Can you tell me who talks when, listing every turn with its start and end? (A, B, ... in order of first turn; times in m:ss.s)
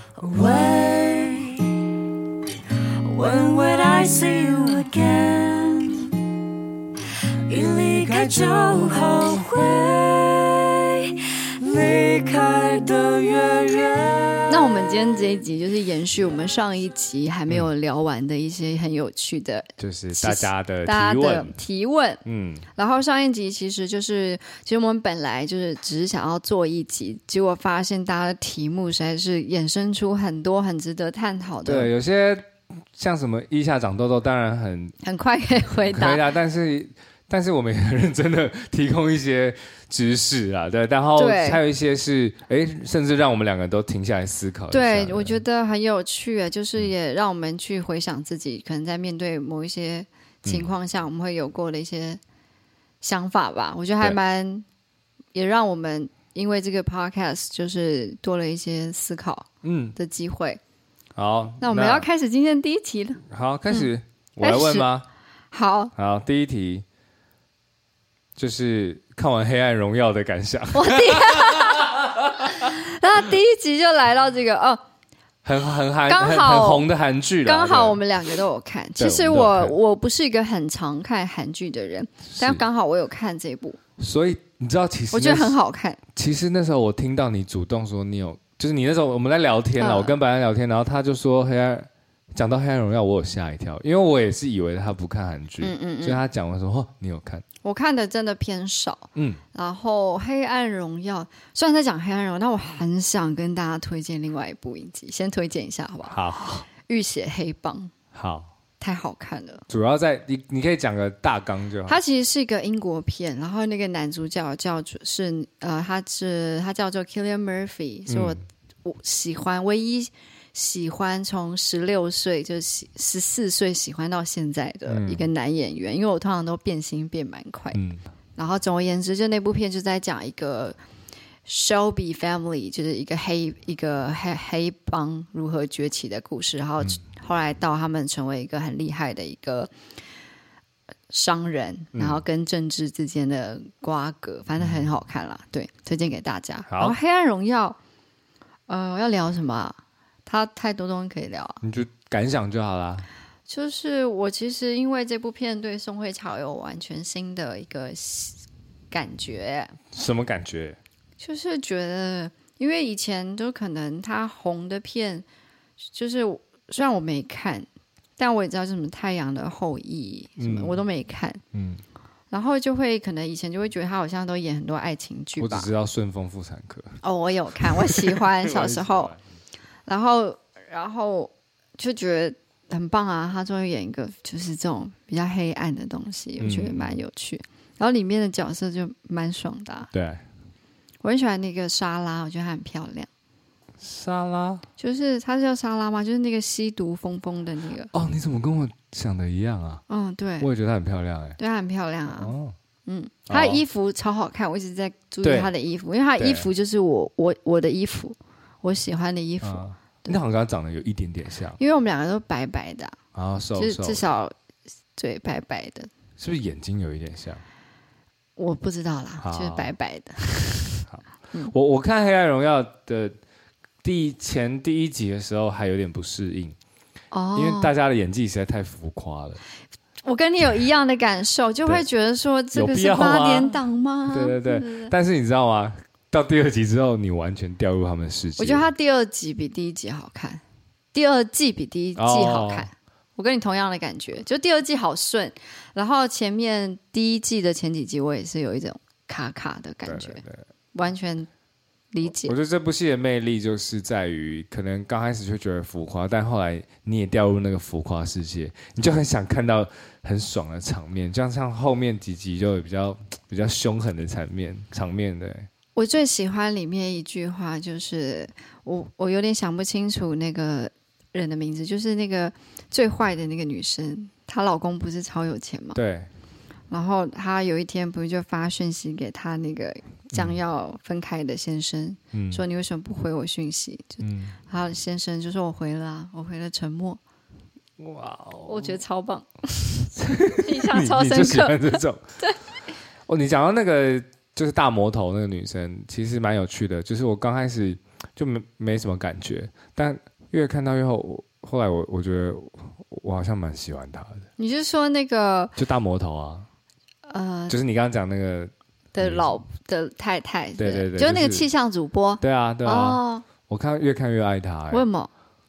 0:00.2-0:01.7 A
0:03.1-0:06.1 A
0:07.5-0:14.5 A
0:14.5-0:22.2 B
0:19.8-0:21.6 C
0:22.2-0:22.7 C
0:22.8-0:31.9 B
0:31.6-0:35.0 C
0:35.0-0:36.2 B
0:35.9-0:45.4 C
0:41.2-0:41.6 B
0:44.7-0:52.2 B
0:53.0-0:54.6 B
0:55.3-1:00.6 B
0:59.6-1:00.0 C
1:01.2-1:02.1 C
1:01.6-1:03.9 B
1:03.3-1:05.1 C
1:04.4-1:04.9 B
1:05.5-1:05.9 B
1:06.0-1:06.8 C
1:08.4-1:12.5 C
1:10.7-1:14.8 B
1:15.4-1:18.0 C
1:16.1-1:16.9 B
1:17.4-1:23.8 B
1:19.0-1:19.8 C
1:22.3-1:22.6 C
1:24.0-1:25.6 C
1:25.1-1:26.0 B
1:26.2-1:37.4 C
1:29.8-1:30.2 B
1:35.6-1:36.2 B
1:37.6-1:46.2 B
1:39.2-1:39.4 C
1:46.1-1:46.7 C
1:46.7-1:47.9 B
1:48.1-1:48.5 C
1:48.8-1:49.6 B
1:49.7-1:52.0 C
1:51.9-2:07.8 B
1:58.1-1:58.4 C
2:04.9-2:05.3 C
2:07.7-2:08.0 C
2:08.4-2:10.8 B
2:11.5-2:19.7 B
2:21.1-2:27.8 B
2:21.9-2:22.2 C
2:24.6-2:24.9 C
2:26.7-2:27.0 C
2:28.7-2:31.6 B
2:31.6-2:33.1 C
2:33.5-2:38.4 B
2:38.9-2:39.8 B
2:39.9-2:40.8 C
2:41.2-2:45.2 B
2:45.8-2:51.4 B
2:50.4-2:50.8 C
2:51.5-2:51.8 C
2:52.3-2:55.7 B
2:55.4-2:57.0 C
2:57.0-2:59.1 B
2:57.7-2:59.2 C
2:59.9-3:09.9 B
3:06.4-3:07.0 C
3:09.9-3:10.2 C
3:11.0-3:13.1 B
3:13.8-3:14.7 C
3:14.8-3:17.9 B
3:17.9-3:19.8 C
3:19.9-3:20.5 B
3:20.4-3:21.4 C
3:21.4-3:22.3 B
3:22.1-3:22.6 C
3:22.9-3:30.2 B
3:23.3-3:23.6 C
3:25.2-3:25.5 C
3:26.2-3:26.5 C
3:29.4-3:31.6 C
3:31.6-3:33.0 B
3:33.1-3:34.0 C
3:33.6-3:34.3 B
3:35.0-3:35.9 B
3:36.2-3:37.4 C
3:38.4-3:40.8 B
3:39.2-3:39.7 C
3:40.8-3:43.2 C
3:43.8-3:46.6 C
3:47.1-3:47.7 B
3:47.4-3:49.4 C
3:50.0-3:54.9 B
3:52.5-3:58.7 C
3:58.4-4:00.4 B
4:00.9-4:10.2 B
4:02.0-4:02.7 C
4:09.8-4:10.5 C
4:10.7-4:11.3 B
4:11.9-4:12.3 B
4:12.1-4:25.5 C
4:25.8-4:35.8 B
4:35.7-4:36.1 C
4:36.7-4:47.0 B
4:40.1-4:40.4 C
4:42.1-4:42.4 C
4:44.0-4:44.4 C
4:47.8-4:48.8 C
4:48.5-4:52.4 B
4:49.9-4:52.0 C
4:53.1-5:04.3 C
5:04.4-5:05.6 B
5:05.6-5:06.5 C
5:07.0-5:07.6 B
5:07.5-5:09.4 C
5:08.9-5:13.3 B
5:10.6-5:11.5 C
5:12.2-5:14.9 C
5:14.7-5:15.1 B